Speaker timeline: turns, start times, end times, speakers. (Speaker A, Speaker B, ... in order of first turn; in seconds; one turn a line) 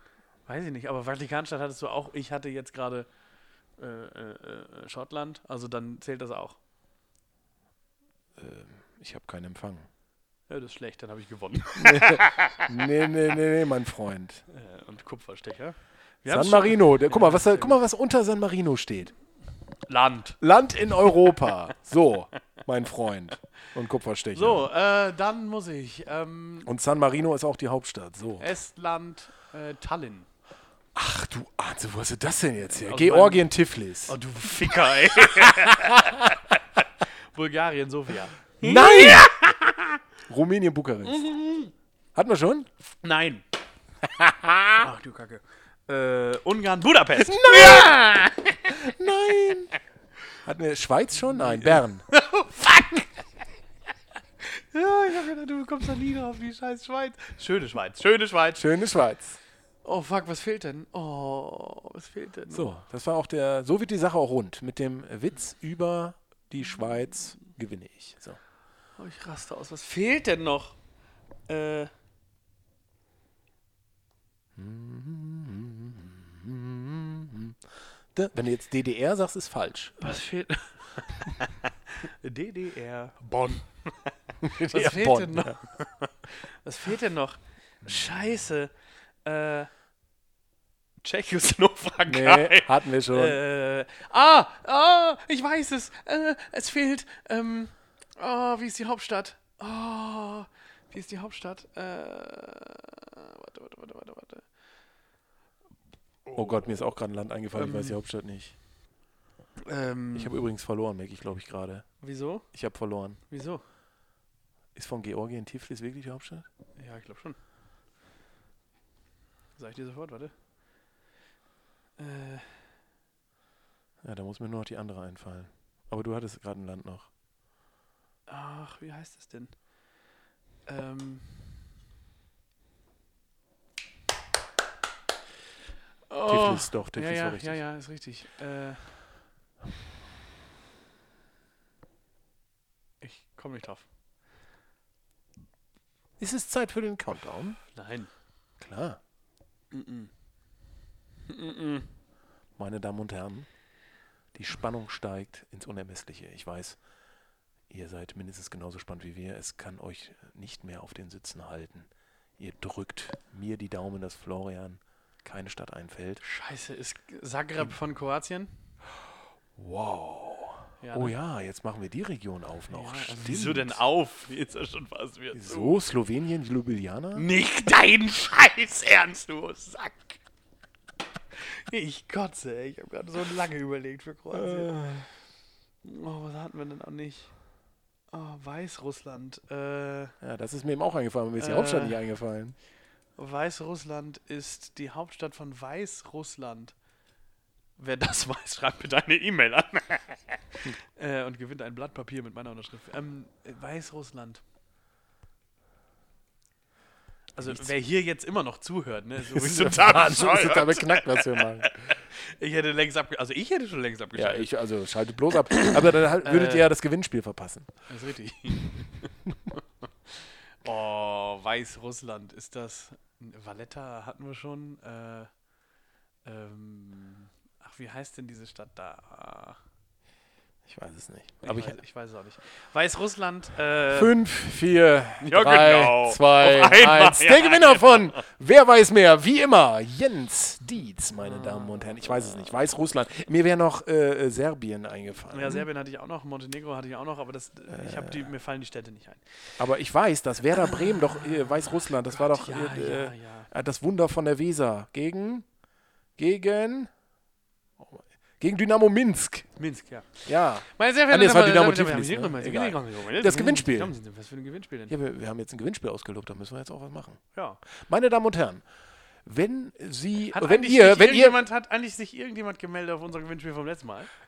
Speaker A: 0.5-3.1
Speaker A: 3.8-6.6
Speaker B: 8.3-9.8
Speaker A: 10.5-12.7
Speaker B: 11.8-14.4
Speaker A: 14.5-17.8
Speaker B: 16.3-19.1
Speaker A: 19.9-20.4
Speaker B: 20.4-24.6
Speaker A: 24.3-26.7
Speaker B: 26.6-28.5
Speaker A: 28.4-30.3
Speaker B: 30.9-34.1
Speaker A: 32.7-33.5
Speaker A: 34.0-36.3
Speaker B: 34.7-36.2
Speaker A: 37.3-39.9
Speaker B: 38.6-39.3
Speaker B: 40.3-41.2
Speaker A: 41.0-41.7
Speaker B: 42.1-42.7
Speaker A: 43.0-43.4
Speaker B: 44.0-44.9
Speaker A: 44.8-48.5
Speaker B: 47.2-48.0
Speaker B: 48.7-49.7
Speaker B: 50.4-52.1
Speaker A: 51.3-52.8
Speaker B: 52.6-53.0
Speaker A: 54.4-58.6
Speaker B: 58.5-59.4
Speaker A: 59.8-62.7
Speaker B: 62.5-68.4
Speaker A: 69.0-70.8
Speaker A: 71.5-71.9
Speaker B: 74.5-80.0
Speaker A: 80.0-88.7
Speaker B: 84.4-85.6
Speaker A: 89.2-89.7
Speaker A: 91.0-104.5
Speaker B: 92.0-93.4
Speaker B: 106.3-108.5
Speaker A: 107.5-108.0
Speaker A: 109.6-110.4
Speaker B: 110.1-111.9
Speaker A: 112.0-112.5
Speaker B: 112.5-113.2
Speaker A: 113.3-113.6
Speaker B: 114.7-116.5
Speaker A: 116.8-117.4
Speaker A: 119.5-120.3
Speaker A: 122.0-122.6
Speaker B: 124.0-127.1
Speaker A: 128.3-129.5
Speaker A: 130.7-131.4
Speaker A: 136.1-138.9
Speaker B: 136.2-137.6
Speaker A: 143.0-143.8
Speaker B: 146.2-147.6
Speaker A: 147.7-148.1
Speaker B: 148.6-149.0
Speaker A: 149.7-150.1
Speaker A: 151.2-151.9
Speaker B: 152.6-153.5
Speaker B: 154.3-156.8
Speaker B: 157.7-166.2
Speaker A: 166.2-168.5
Speaker B: 169.6-173.8
Speaker A: 170.8-171.1
Speaker A: 172.7-175.8
Speaker B: 175.3-177.2
Speaker A: 177.1-180.2
Speaker A: 181.4-184.8
Speaker B: 184.3-185.1
Speaker A: 185.8-187.3
Speaker A: 188.1-190.1
Speaker B: 190.2-192.6
Speaker A: 191.4-192.0
Speaker A: 193.2-196.7
Speaker A: 197.8-204.4
Speaker A: 207.3-214.5
Speaker B: 207.4-207.7
Speaker B: 209.2-211.9
Speaker B: 214.1-217.7
Speaker A: 215.6-216.7
Speaker A: 217.9-225.3
Speaker A: 226.2-229.6
Speaker B: 230.7-231.8
Speaker A: 231.4-234.2
Speaker B: 233.9-245.7
Speaker A: 235.2-238.2
Speaker A: 241.2-242.3
Speaker A: 245.3-249.2
Speaker B: 247.7-248.3
Speaker B: 249.6-255.4
Speaker A: 250.7-251.3
Speaker A: 252.1-253.5
Speaker B: 256.2-256.9
Speaker B: 257.8-259.5
Speaker A: 259.6-264.9
Speaker B: 260.2-263.9
Speaker B: 264.9-267.2
Speaker A: 267.3-267.6
Speaker B: 267.8-268.6
Speaker B: 269.2-271.4
Speaker A: 270.3-274.1